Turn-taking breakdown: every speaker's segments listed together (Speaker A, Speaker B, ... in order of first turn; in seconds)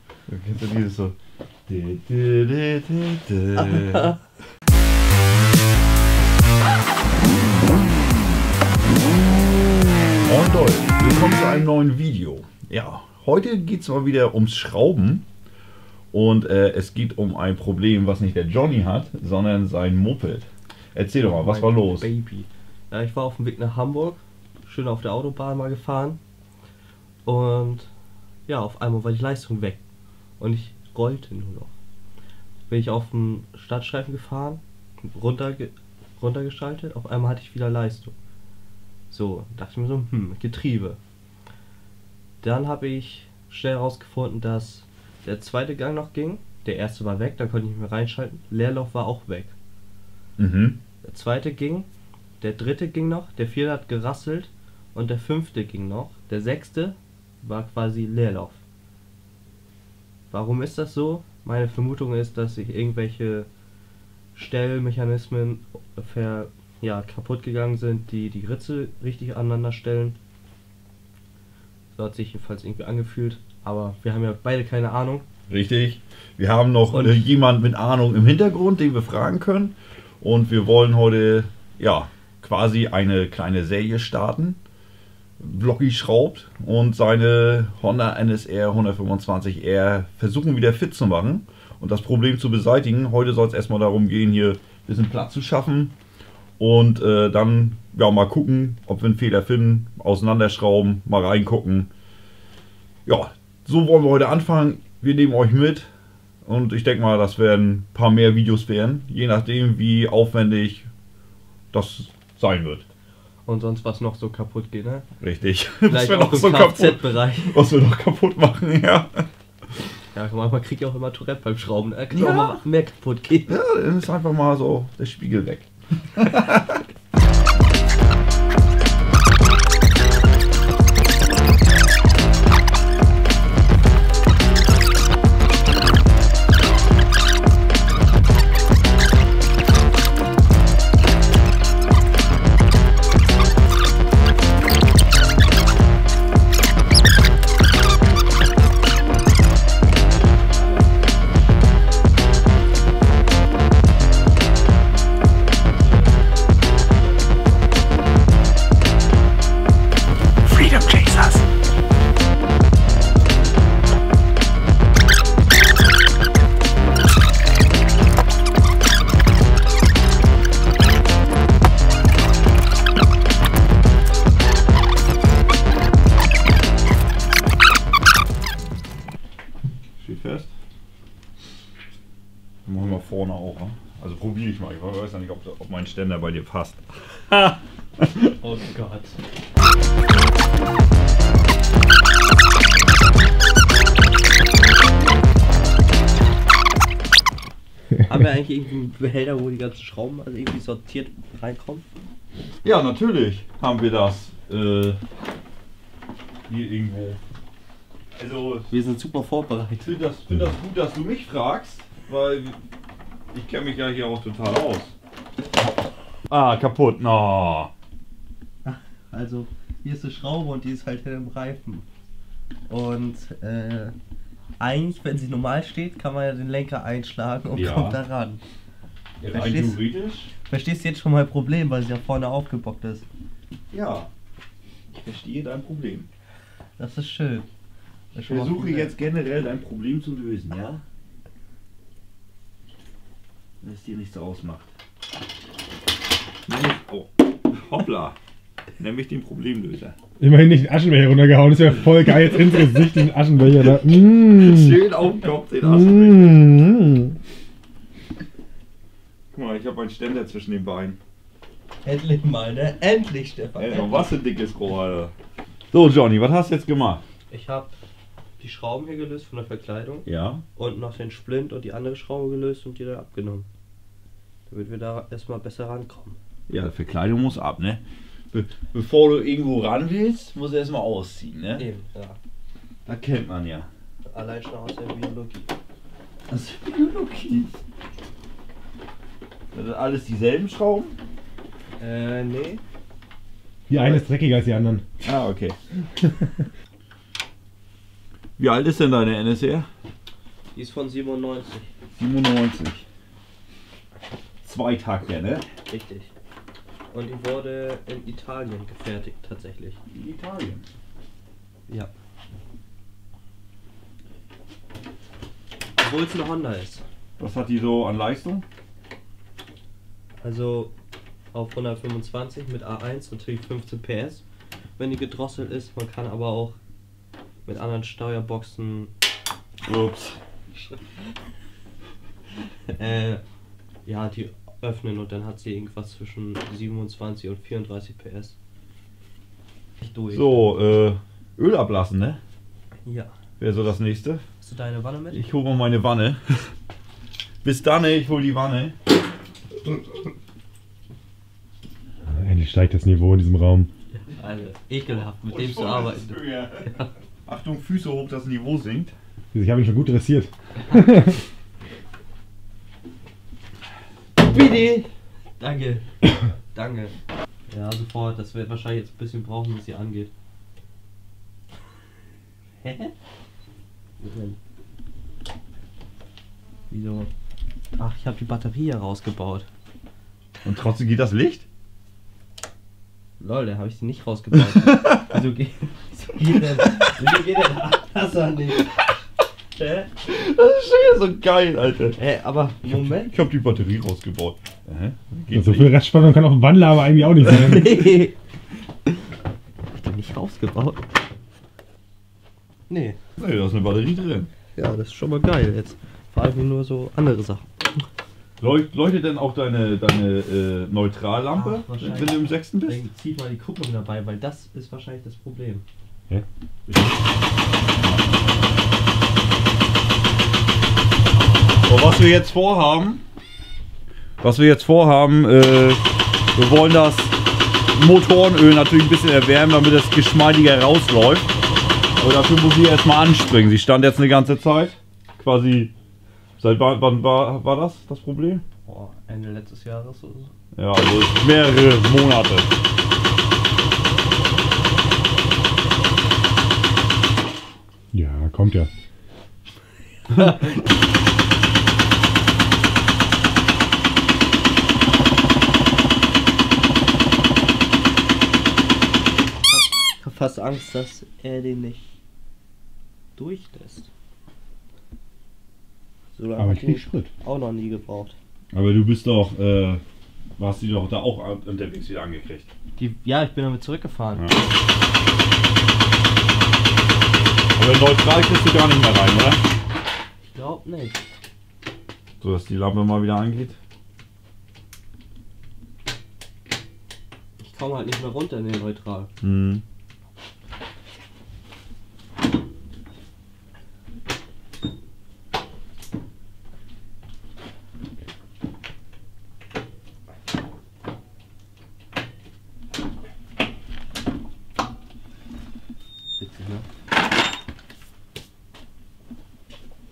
Speaker A: 0.3-1.1, 1.7-4.1, 7.2-8.1, 10.2-15.2, 16.1-22.1, 50.4-50.8, 75.5-84.6, 85.4-96.0, 96.6-101.9, 103.0-105.9, 106.4-110.9, 111.7-112.9, 115.2-119.2, 122.1-122.6, 123.5-126.8, 180.0-180.5, 182.7-188.3, 202.6-205.0, 206.5-207.2, 208.2-208.7, 209.8-212.6, 213.3-214.9, 216.3-217.7, 227.5-228.0, 229.2-230.3, 233.7-234.1, 234.9-236.1, 238.2-240.8, 243.6-244.7, 246.5-248.2, 248.8-249.9, 254.3-256.5, 259.3-261.0, 263.6-265.1, 265.7-267.0, 270.1-270.4, 276.5-277.8, 278.3-281.7, 282.9-283.7, 286.3-287.6, 289.5-290.9, 295.0-295.9, 298.4-299.7, 302.0-302.8, 304.4-305.5, 309.9-310.6, 317.2-318.4, 329.6-330.2, 340.1-342.2, 343.4-344.2, 345.1-346.5, 347.4-348.7, 355.2-358.9, 364.2-364.9, 380.4-381.4, 384.5-385.2, 390.0-392.0, 392.6-395.7, 403.2-404.3, 408.4-412.8, 421.6-423.0, 424.2-425.8, 426.3-427.1, 427.7-431.3, 432.0-435.7, 436.4-438.4, 440.5-442.5, 468.5-469.8, 470.4-472.5, 474.1-474.4, 477.6-479.4, 482.2-483.6, 489.2-489.6
Speaker B: 21.4-26.2, 27.2-27.9, 28.5-29.8, 30.4-31.7, 32.7-38.1, 39.1-41.0, 42.4-49.5, 51.0-51.9, 52.4-58.6, 60.3-63.5, 64.3-70.2, 71.9-75.2, 76.9-77.2, 113.5-115.1, 115.9-117.6, 120.1-123.5, 150.1-151.5, 155.2-157.8, 188.4-189.2, 198.1-201.8, 208.7-209.9, 218.6-221.8, 222.7-223.9, 224.6-228.4, 229.3-229.8, 230.4-233.1, 236.8-237.5, 238.1-238.9, 261.8-264.1, 267.3-267.7, 268.4-273.5, 274.5-276.2, 281.6-282.2, 284.1-285.5, 291.8-292.6, 300.5-301.7, 305.7-306.1, 306.9-309.8, 315.8-316.8, 320.2-320.7, 321.3-324.2, 324.8-326.6, 327.4-328.9, 332.7-333.2, 333.8-338.4, 339.8-340.5, 342.9-343.1, 344.4-345.2, 353.9-356.9, 364.2-364.7, 365.4-365.9, 366.5-366.9, 367.5-370.1, 372.6-372.9, 374.0-374.4, 376.7-377.1, 377.8-379.5, 383.2-388.7, 389.6-389.9, 392.0-393.1, 397.2-398.1, 399.8-400.8, 402.7-403.0, 404.6-407.8, 411.3-415.6, 438.6-440.3, 450.1-450.6, 459.5-461.9, 463.1-463.9, 466.1-468.1, 472.8-474.3, 480.3-481.0, 487.4-489.1, 506.2-506.6
Speaker C: 160.4-161.4, 250.2-254.8, 255.6-257.1, 293.7-294.8, 352.1-353.7, 359.3-361.2, 395.3-397.9, 447.9-448.7, 466.4-467.1